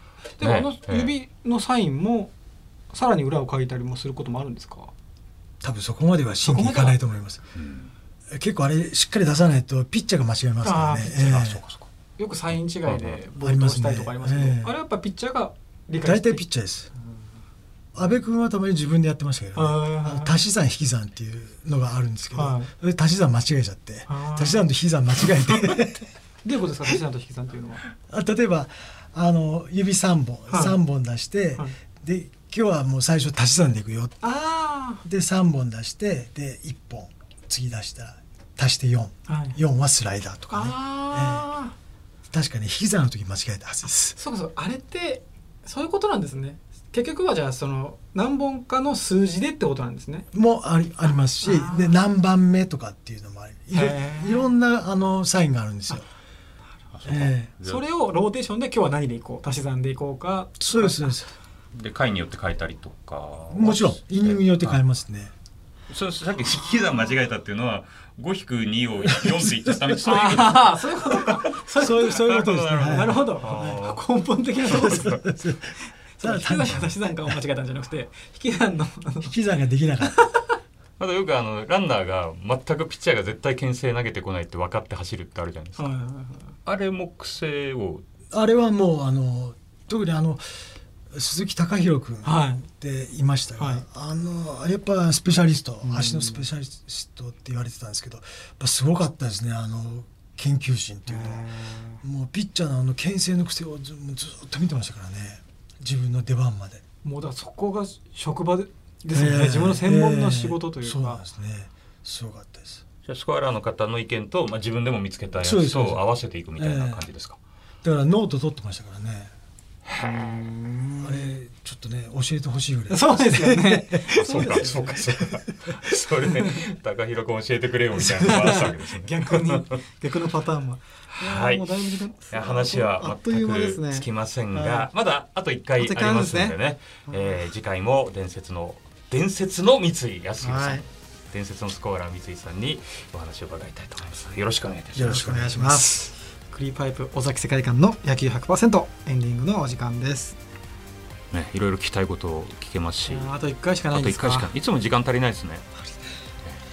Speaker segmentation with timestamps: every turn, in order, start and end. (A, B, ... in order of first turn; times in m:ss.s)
0:00.4-0:02.3 A
0:00.4-0:01.1 B
0:02.9-0:04.9 A
0:05.6-0:07.4 C
0:06.4-0:07.0 A
0:07.6-0:07.9 B
0:08.3-0:11.6 C
0:10.6-0:11.4 A
0:11.0-0:11.9 B
0:12.2-0:16.4 A
0:12.8-0:13.2 B
0:13.4-0:14.7 C
0:16.0-0:16.9 C
0:18.0-0:26.1 C
0:19.6-0:20.3 A
0:22.4-0:22.7 A
0:24.1-0:24.7 A
0:26.4-0:27.8 A
0:28.0-0:34.2 C
0:30.5-0:30.8 A
0:34.2-0:35.0 A
0:35.0-0:41.5 C
0:39.3-0:39.6 A
0:40.5-0:41.8 A
0:42.3-0:44.2 C
0:44.2-0:50.3 A
0:50.3-0:56.1 C
0:51.4-0:52.0 A
0:53.7-0:54.5 A
0:57.0-0:57.8 B
0:57.0-0:57.5 C
0:57.6-1:01.2 A
1:00.6-1:01.3 C
1:01.7-1:04.8 B
1:03.5-1:05.3 C
1:05.9-1:11.6 B
1:09.1-1:09.8 C
1:10.0-1:15.2 A
1:11.8-1:13.3 C
1:12.2-1:14.0 B
1:14.6-1:17.0 C
1:14.7-1:15.2 B
1:15.8-1:19.3 A
1:19.2-1:20.2 C
1:21.0-1:25.9 B
1:25.8-1:26.5 A
1:26.7-1:28.0 B
1:28.3-1:41.5 C
1:32.2-1:32.7 A
1:33.6-1:33.8 A
1:35.8-1:36.4 A
1:41.1-1:42.0 A
1:42.0-1:46.8 C
1:47.0-1:51.2 A
1:49.1-1:52.8 C
1:53.1-1:57.4 B
1:55.4-1:57.0 C
1:57.8-1:59.3 C
1:59.9-2:00.4 B
2:00.0-2:01.3 A
2:01.0-2:05.1 C
2:02.9-2:05.0 A
2:04.1-2:09.8 B
2:08.0-2:14.9 A
2:11.2-2:25.2 B
2:15.8-2:17.4 A
2:20.4-2:20.8 A
2:24.9-2:26.1 C
2:25.0-2:30.4 A
2:31.3-2:33.3 B
2:33.1-2:34.5 A
2:33.9-2:35.6 B